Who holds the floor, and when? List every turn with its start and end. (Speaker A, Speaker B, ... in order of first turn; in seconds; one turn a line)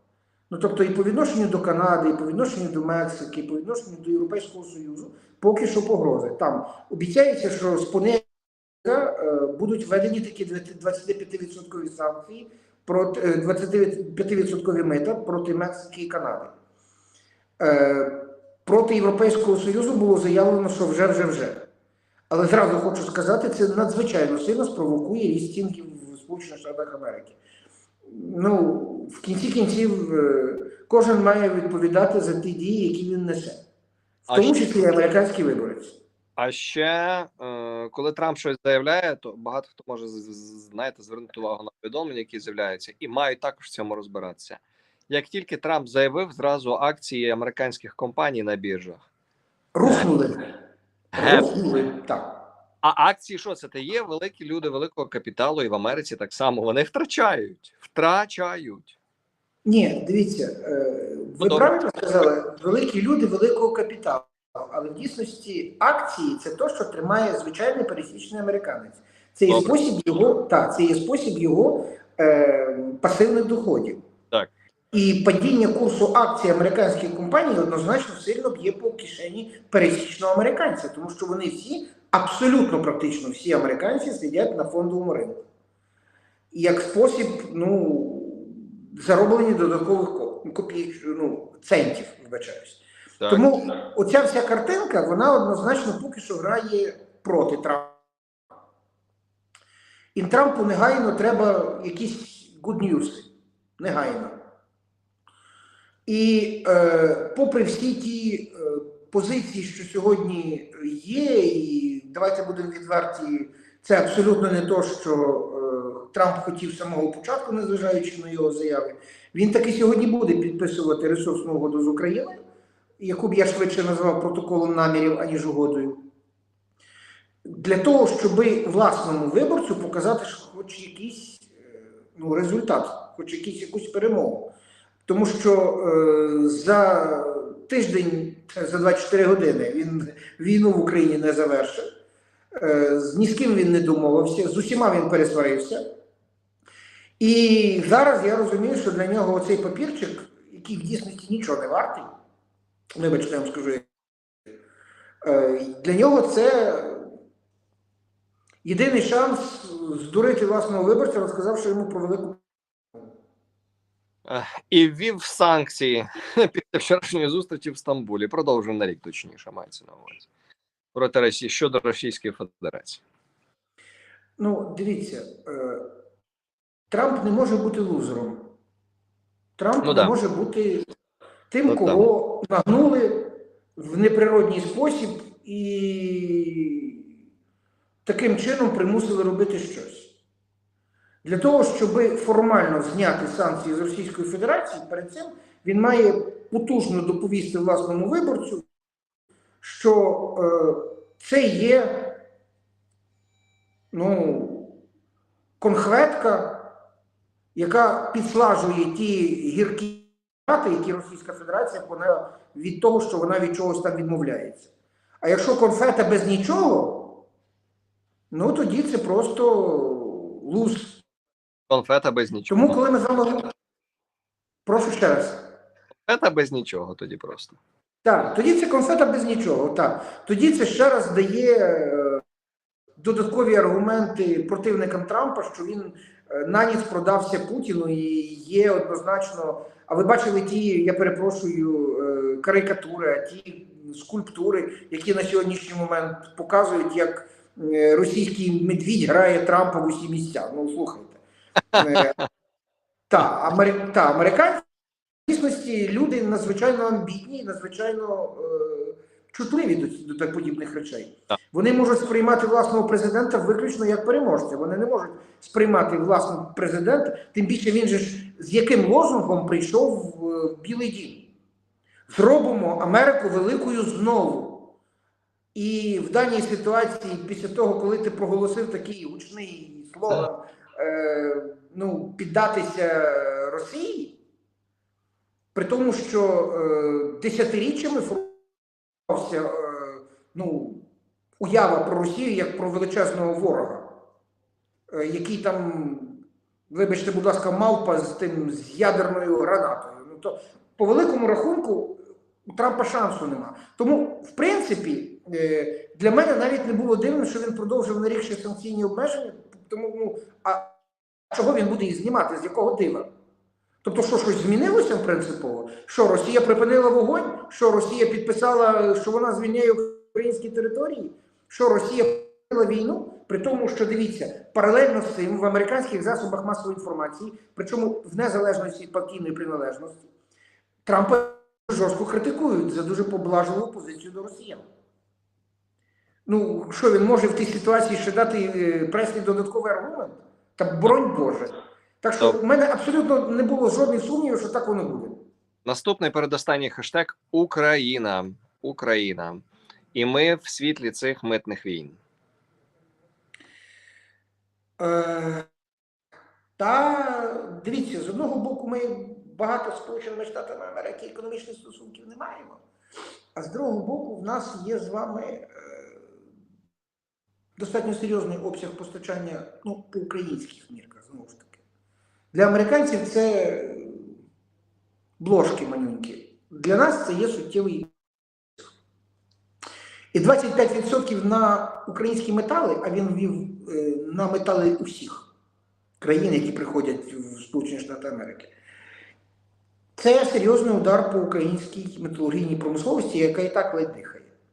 Speaker A: 0.5-8.3
Speaker A: 8.8-16.5
Speaker A: 17.6-21.7
Speaker A: 22.3-27.4
Speaker A: 28.1-33.6
Speaker B: 34.3-34.9
Speaker A: 34.3-36.0
Speaker B: 36.4-49.0
Speaker A: 49.7-50.5
Speaker A: 51.1-52.4
Speaker B: 51.2-51.5
Speaker B: 52.8-59.0
Speaker A: 59.6-74.0
Speaker B: 61.4-61.9
Speaker B: 69.5-69.7
Speaker A: 74.9-85.4
Speaker A: 86.5-98.0
Speaker B: 93.2-93.7
Speaker A: 100.1-104.4
Speaker A: 106.0-122.4
Speaker A: 123.0-126.1
Speaker A: 127.4-134.5
Speaker A: 135.1-141.8
Speaker A: 142.6-145.8
Speaker A: 147.2-152.1
Speaker A: 153.0-153.9
Speaker A: 155.2-157.1
Speaker A: 158.6-162.4
Speaker B: 164.3-170.3
Speaker B: 170.9-173.0
Speaker A: 174.4-175.9
Speaker A: 176.9-178.5
Speaker A: 179.6-180.8
Speaker B: 179.8-180.1
Speaker A: 181.5-187.1
Speaker B: 181.7-182.1
Speaker A: 188.0-190.1
Speaker A: 191.2-198.6
Speaker A: 199.6-202.2
Speaker A: 203.9-204.8
Speaker A: 205.6-206.7
Speaker A: 207.5-214.7
Speaker A: 215.2-217.2
Speaker A: 218.3-221.0
Speaker B: 221.7-222.8
Speaker A: 222.5-223.5
Speaker A: 224.7-225.5
Speaker B: 226.1-227.6
Speaker A: 228.0-232.2
Speaker A: 233.0-251.2
Speaker A: 251.7-252.2
Speaker B: 251.7-252.2
Speaker A: 253.1-254.6
Speaker A: 255.3-271.3
Speaker A: 272.1-274.7
Speaker A: 275.5-284.2
Speaker A: 285.5-288.4
Speaker A: 289.1-290.8
Speaker A: 291.4-293.9
Speaker A: 294.9-310.8
Speaker A: 311.3-313.1
Speaker A: 313.8-330.1
Speaker A: 330.9-334.6
Speaker A: 336.2-345.2
Speaker B: 345.6-352.0
Speaker A: 354.8-355.5
Speaker A: 356.6-362.6
Speaker A: 363.3-366.1
Speaker A: 367.6-371.6
Speaker A: 372.3-374.2
Speaker A: 375.2-377.9
Speaker A: 380.1-385.3
Speaker A: 386.0-388.5
Speaker A: 389.9-394.3